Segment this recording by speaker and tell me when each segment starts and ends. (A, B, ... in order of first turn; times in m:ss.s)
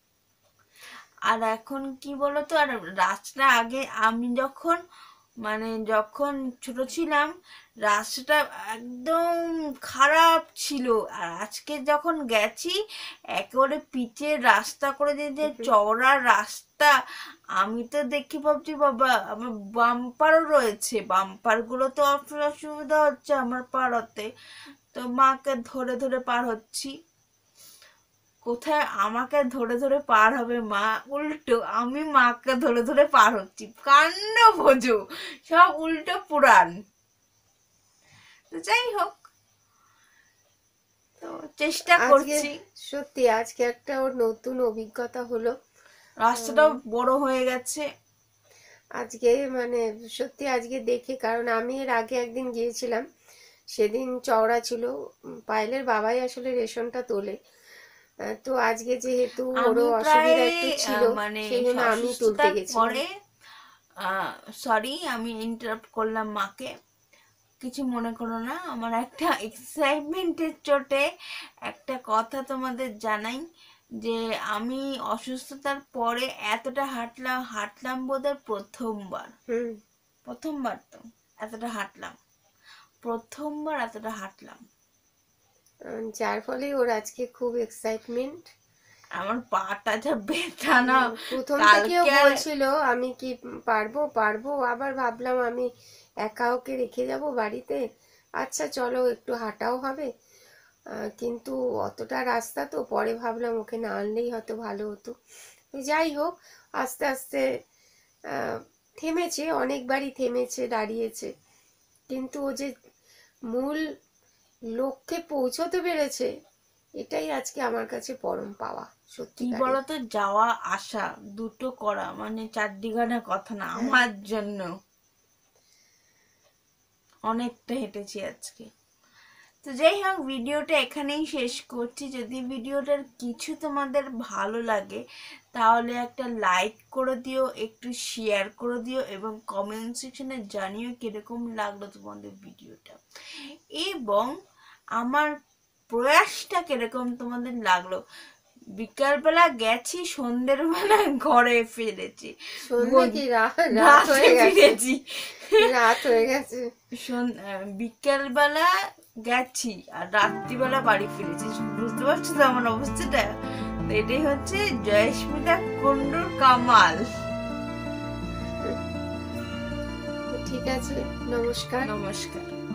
0:01.3-0:04.8 A
0:05.4-0:07.3 A
0:07.8-0:12.8 A
0:13.4-0:16.9 A
0:15.4-0:15.7 B
0:17.6-0:24.3 A
0:24.9-0:26.9 A
0:28.4-0:36.7 A
0:38.5-0:39.2 A
0:41.2-0:42.5 A
0:41.9-0:45.5 B
0:46.2-0:47.8 A
0:46.3-0:46.8 B
0:49.0-0:53.0 B
0:53.7-0:54.9 B
0:55.5-0:57.3 B
0:58.3-1:03.0 B
0:59.6-1:03.0 A
1:04.0-1:06.7 A
1:07.6-1:11.0 A
1:11.7-1:13.4 A
1:14.0-1:19.3 A
1:19.5-1:19.8 B
1:20.2-1:22.2 A
1:23.0-1:24.6 A
1:25.9-1:28.4 B
1:29.2-1:32.3 A
1:30.8-1:35.6 B
1:36.2-1:37.8 B
1:38.4-1:40.1 B
1:41.2-1:45.1 B
1:45.7-1:47.4 B
1:48.4-1:51.3 B
1:52.1-1:52.7 B
1:53.5-1:53.8 B
1:54.8-1:56.3 B
1:57.0-1:59.8 B
1:59.4-2:04.7 A
2:03.8-2:04.0 B
2:07.3-2:08.7 A
2:09.6-2:15.0 A
2:15.5-2:23.0 A
2:23.8-2:24.3 A
2:25.0-2:25.3 A
2:25.9-2:28.0 A
2:28.8-2:33.2 A
2:32.6-2:34.8 B
2:33.7-2:35.6 A
2:35.6-2:36.7 B
2:37.0-2:38.7 A
2:39.3-2:43.2 A
2:43.9-2:47.0 A
2:50.4-2:51.9 B
2:51.8-2:52.5 A